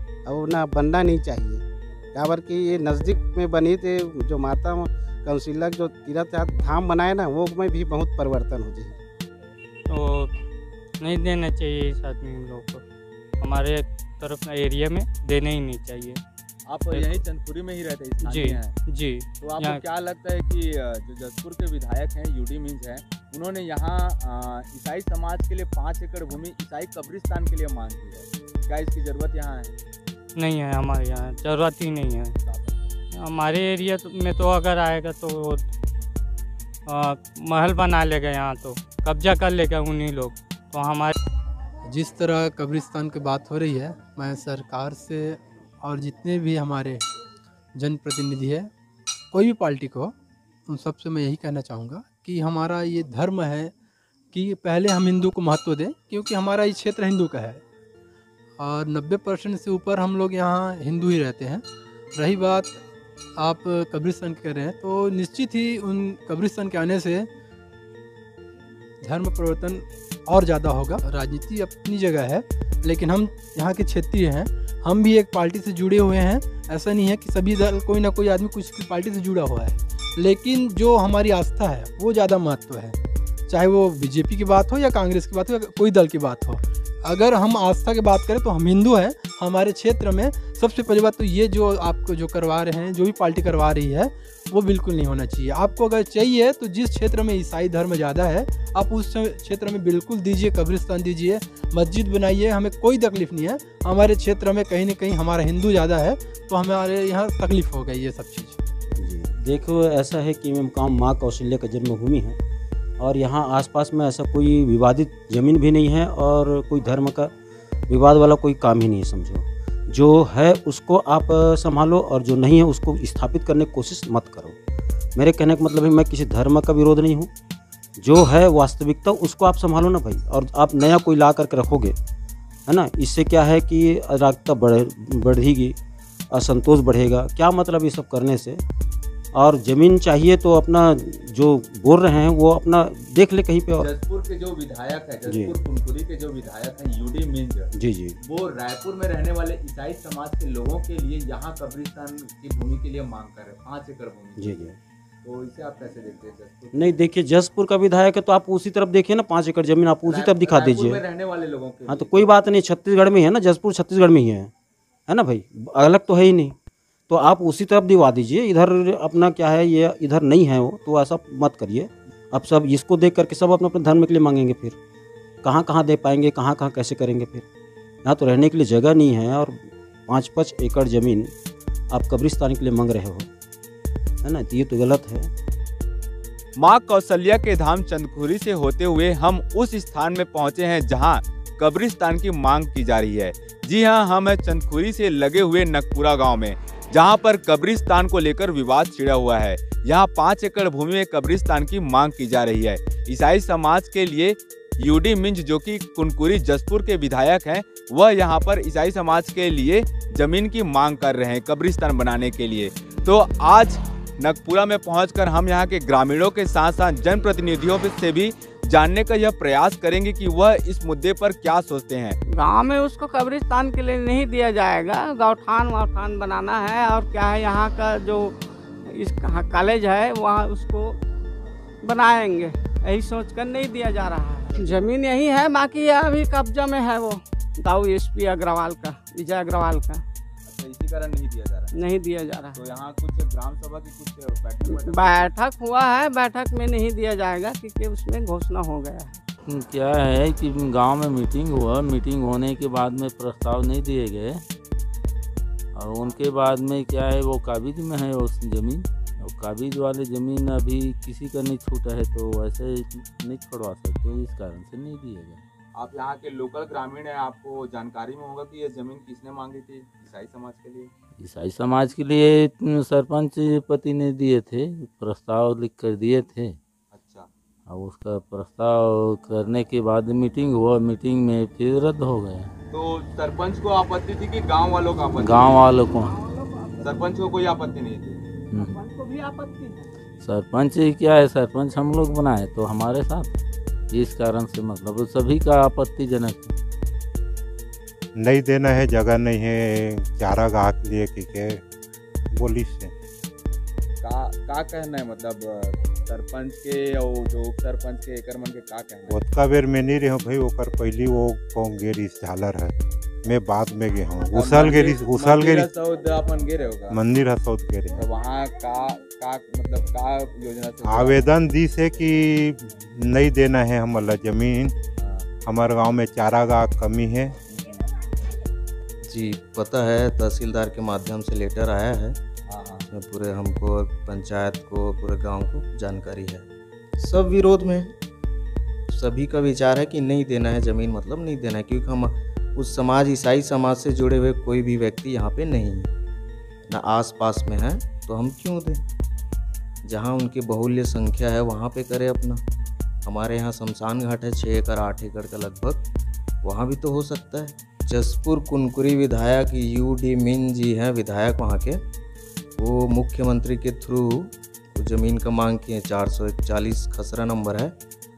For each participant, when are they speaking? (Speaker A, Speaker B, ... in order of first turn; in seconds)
Speaker A: 0.2-9.0
Speaker B: 9.9-10.3, 11.0-12.8, 13.4-16.2, 16.9-17.2, 18.2-19.8, 30.4-32.4, 33.1-35.6, 36.9-41.1
Speaker C: 16.7-18.7, 19.4-29.7, 32.4-32.9, 143.8-147.7, 148.2-154.7, 155.2-157.0, 160.1-162.3, 186.6-222.2, 234.5-234.9, 240.5-241.7, 242.5-245.3, 265.7-270.9, 276.9-277.3, 282.7-285.6, 286.8-288.2, 304.0-309.2, 314.3-317.0, 318.0-321.2, 325.0-325.3, 327.5-327.9, 332.5-332.9
Speaker D: 41.8-47.0, 47.8-48.7, 49.3-50.1, 50.7-53.7, 54.3-57.6, 58.6-62.8, 63.4-67.3, 69.0-83.0, 83.5-108.6
Speaker E: 108.9-112.4, 113.0-117.3, 117.9-124.5, 125.2-127.3, 128.0-131.9, 132.7-135.8, 136.3-138.6, 139.3-143.9, 145.2-145.5, 147.7-148.2, 154.4-154.8, 156.7-161.0, 161.9-164.5, 165.1-166.6, 167.1-174.8, 175.4-177.4, 178.0-181.3, 181.9-183.3, 184.2-185.3
Speaker F: 222.4-228.3, 228.9-230.9, 231.8-240.0, 241.7-242.6, 244.7-249.2
Speaker G: 249.4-254.4, 255.8-265.4, 271.2-276.6, 277.7-282.5, 285.2-286.1, 288.5-288.8, 290.2-296.5
Speaker H: 298.2-301.6, 302.3-302.9, 309.1-315.7, 316.9-318.0, 320.8-324.7, 325.4-327.3
Speaker I: 329.1-332.2, 332.9-337.9, 338.9-345.9, 346.7-348.8, 349.8-352.4, 353.1-355.8, 356.4-361.8, 362.6-367.7